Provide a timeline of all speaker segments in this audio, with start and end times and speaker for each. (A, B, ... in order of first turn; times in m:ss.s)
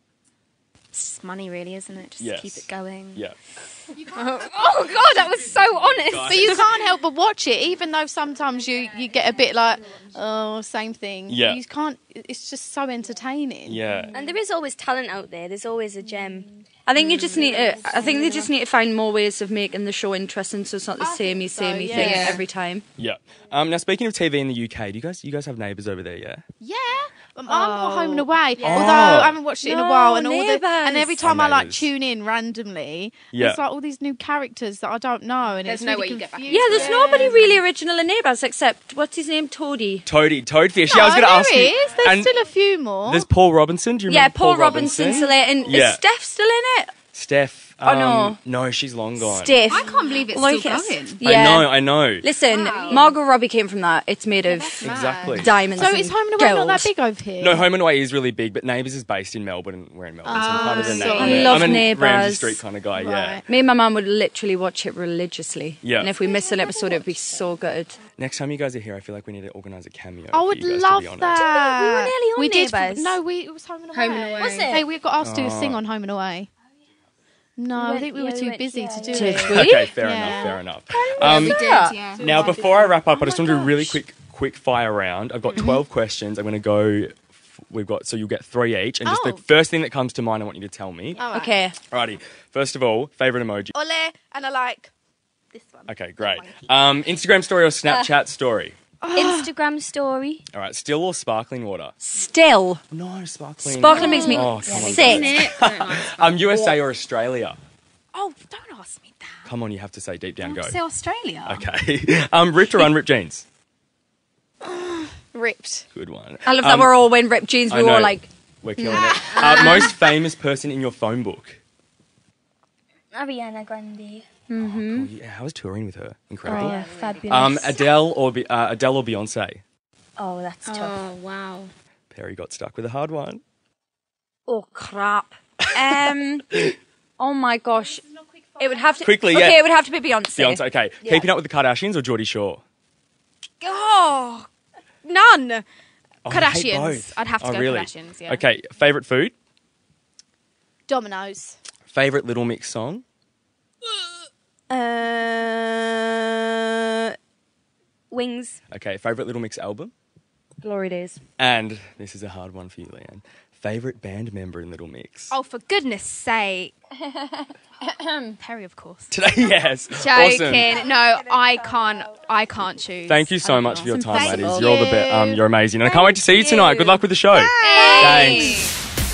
0:00.9-0:03.2 A
0:02.2-0:03.4 B
0:04.0-0:06.2 A
0:04.1-0:06.6 C
0:05.9-0:06.8 B
0:06.2-0:13.8 D
0:11.3-0:11.6 B
0:13.6-0:14.2 B
0:14.1-0:16.5 C
0:16.9-0:22.8 E
0:21.0-0:22.4 D
0:21.9-0:22.4 A
0:23.0-0:26.4 B
0:26.6-0:37.6 D
0:27.5-0:31.2 E
0:28.6-0:29.4 B
0:31.2-0:31.9 B
0:33.3-0:33.6 B
0:35.6-0:37.4 A
0:36.5-0:40.1 E
0:40.0-0:42.3 B
0:40.8-0:43.3 D
0:43.0-0:46.0 B
0:44.1-0:46.9 E
0:47.1-0:49.6 B
0:47.8-0:48.4 E
0:49.2-0:56.9 E
0:49.6-0:51.2 A
0:51.2-0:52.3 B
0:52.5-0:53.2 A
0:52.8-0:53.0 C
0:54.4-0:55.7 A
0:54.8-0:55.6 B
0:55.7-0:57.6 D
0:57.4-1:03.4 B
1:00.2-1:01.8 A
1:00.3-1:01.8 D
1:01.1-1:02.6 E
1:03.0-1:03.5 D
1:03.4-1:08.0 E
1:05.8-1:06.1 B
1:06.6-1:07.3 A
1:08.2-1:11.4 B
1:10.3-1:16.5 D
1:11.4-1:13.2 C
1:13.9-1:14.9 A
1:14.4-1:14.8 C
1:15.2-1:15.8 B
1:17.6-1:20.6 D
1:17.8-1:19.5 C
1:19.1-1:22.0 E
1:19.5-1:21.7 B
1:21.2-1:23.0 A
1:21.3-1:24.0 D
1:22.2-1:31.2 B
1:29.0-1:29.4 D
1:31.2-1:31.6 D
1:31.3-1:31.8 E
1:31.9-1:33.8 B
1:33.7-1:34.9 D
1:35.5-1:37.0 D
1:35.9-1:38.8 B
1:39.0-1:39.5 D
1:39.1-1:40.4 C
1:40.5-1:41.9 B
1:42.0-1:42.8 E
1:42.9-1:47.6 B
1:43.6-1:45.4 E
1:43.9-1:45.2 C
1:43.9-1:45.4 D
1:44.1-1:46.7 A
1:48.1-1:49.5 D
1:49.4-1:50.8 B
1:50.4-1:51.7 A
1:51.4-1:53.4 B
1:54.6-1:55.9 D
1:55.9-1:57.0 B
1:56.4-1:59.7 E
1:57.7-2:01.6 B
1:59.2-1:59.8 A
1:59.4-1:59.8 C
2:03.1-2:04.2 C
2:04.5-2:05.1 E
2:04.6-2:09.6 B
2:06.4-2:07.8 C
2:06.7-2:07.1 A
2:10.2-2:11.1 C
2:10.6-2:11.7 A
2:12.1-2:13.4 B
2:14.5-2:16.6 E
2:15.9-2:16.7 B
2:17.2-2:18.0 E
2:18.6-2:21.3 E
2:19.0-2:19.6 B
2:20.4-2:22.6 B
2:23.6-2:24.5 D
2:25.0-2:25.6 D
2:26.2-2:28.4 A
2:26.2-2:29.3 B
2:30.9-2:31.6 D
2:31.9-2:33.0 B
2:34.7-2:36.6 D
2:38.1-2:38.6 C
2:38.7-2:39.9 B
2:40.6-2:41.2 E
2:41.4-2:45.3 B
2:45.3-2:46.7 A
2:47.0-2:48.4 E
2:48.4-2:49.1 A
2:49.1-2:50.7 B
2:49.9-2:53.9 A
2:53.0-2:58.6 B
2:53.8-2:54.8 E
2:53.8-2:58.5 D
2:57.6-2:58.7 A
2:57.8-2:58.5 E